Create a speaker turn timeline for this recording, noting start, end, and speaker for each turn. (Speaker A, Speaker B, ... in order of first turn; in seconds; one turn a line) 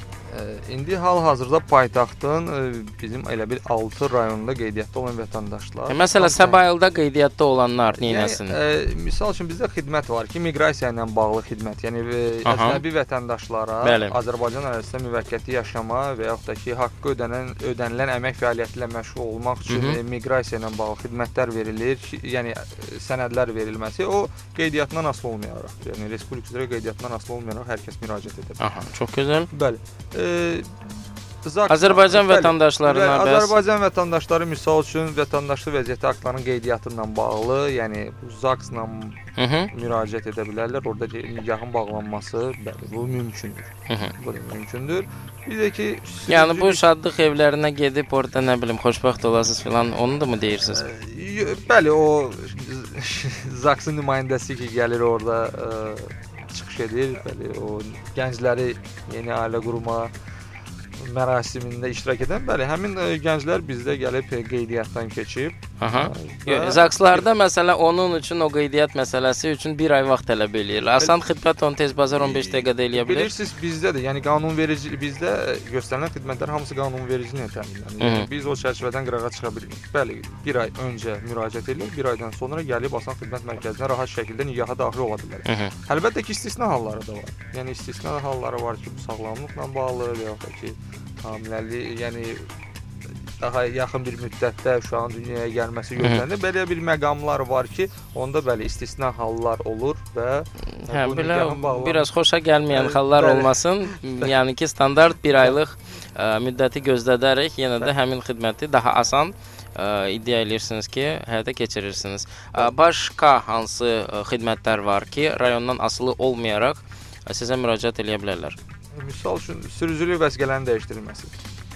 Speaker A: 0.3-6.6
Speaker B: 5.9-8.6
Speaker A: 8.1-28.6
Speaker B: 12.4-12.8
Speaker B: 13.8-14.2
Speaker B: 19.7-20.0
Speaker B: 28.6-29.5
Speaker A: 29.5-30.9
Speaker A: 31.4-39.2
Speaker B: 31.7-33.6
Speaker B: 39.4-39.7
Speaker A: 39.7-46.8
Speaker B: 46.3-50.8
Speaker A: 50.6-60.1
Speaker A: 61.0-67.2
Speaker B: 65.8-73.3
Speaker A: 72.2-92.5
Speaker B: 78.0-78.3
Speaker B: 85.5-85.7
Speaker A: 93.4-102.1
Speaker B: 100.8-118.6
Speaker A: 102.7-104.3
Speaker A: 118.9-121.3